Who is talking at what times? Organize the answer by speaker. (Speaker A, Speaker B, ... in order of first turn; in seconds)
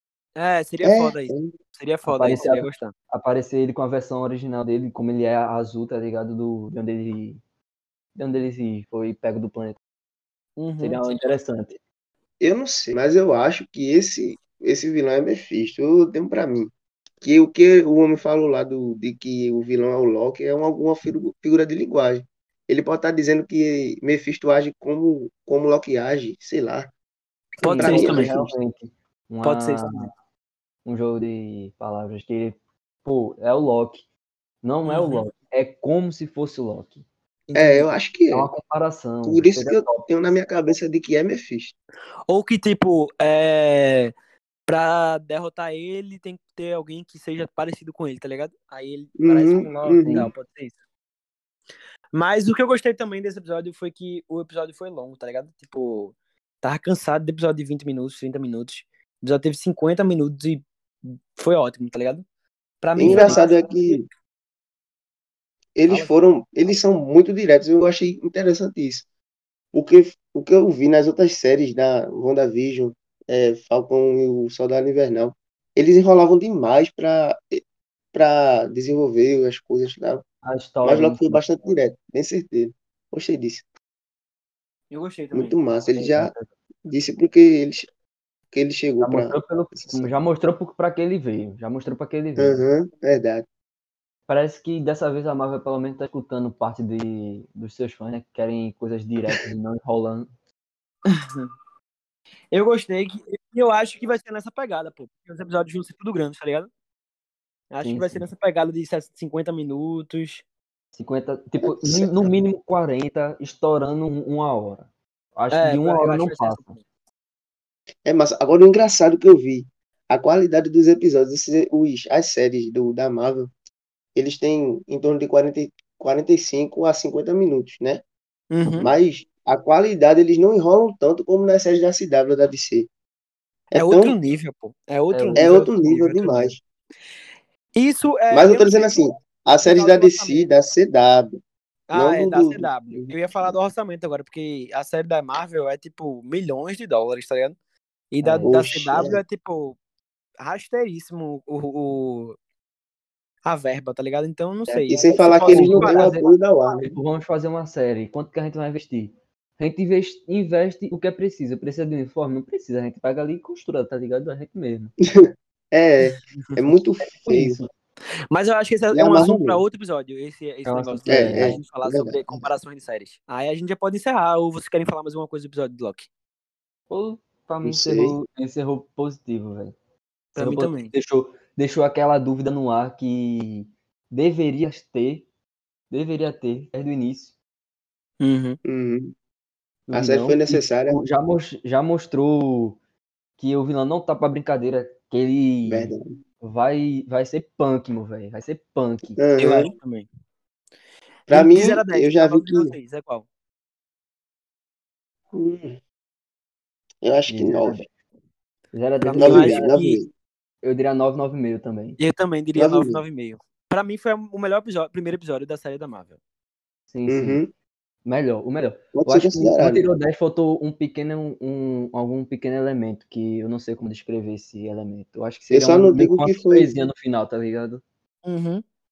Speaker A: 0.4-2.9, 10.6-11.2, 27.6-28.4, 29.4-30.1, 34.9-35.2, 37.5-37.9, 42.3-44.1, 44.7-50.8, 52.1-62.2, 62.8-64.0, 84.9-85.6, 101.1-101.5, 102.5-106.7, 107.7-110.4, 115.5-116.8, 128.5-128.9, 133.8-136.5, 137.8-139.1, 139.6-140.5, 141.9-147.6, 148.1-149.8, 150.4-152.4, 153.4-156.2, 166.1-166.6, 168.3-176.1, 180.3-180.9, 188.2-188.6, 199.4-200.1, 201.3-203.3, 209.1-210.0, 212.0-216.2, 228.2-228.6
Speaker B: 0.8-1.5, 12.4-16.7, 17.2-26.9, 27.7-28.5, 37.5-38.5, 39.2-41.8, 49.2-50.3, 63.0-64.0, 65.8-69.0, 69.7-80.2, 80.8-83.7, 85.3-86.3, 86.8-87.9, 88.5-90.1, 92.4-93.5, 111.6-112.4, 118.0-123.5, 124.2-128.0, 128.8-132.9, 133.7-134.2, 135.3-136.6, 138.3-141.4, 141.9-143.5, 148.4-149.2, 154.7-156.9, 165.1-167.6, 168.9-169.6, 171.1-172.5, 177.7-178.2, 188.7-189.1, 189.9-191.0, 195.7-196.2, 199.2-199.7, 201.3-202.8, 205.3-205.8, 207.0-207.8, 209.1-210.1, 212.6-213.0, 217.1-217.5, 218.9-219.8, 225.5-226.7
Speaker C: 2.1-7.4, 8.2-9.8, 10.8-11.8, 27.6-30.1, 30.9-34.0, 34.6-37.0, 38.3-40.1, 50.0-50.3, 63.0-63.4, 80.4-81.4, 86.0-86.5, 89.0-92.6, 94.3-100.3, 107.8-108.2, 110.9-116.7, 135.1-135.5, 148.2-148.5, 155.5-156.3, 156.9-164.9, 167.2-167.7, 170.7-171.6, 176.9-179.8, 180.4-185.3, 185.9-187.3, 189.9-192.8, 193.4-199.2, 207.3-207.9, 208.7-209.7, 210.6-212.0, 216.9-217.4, 218.1-227.8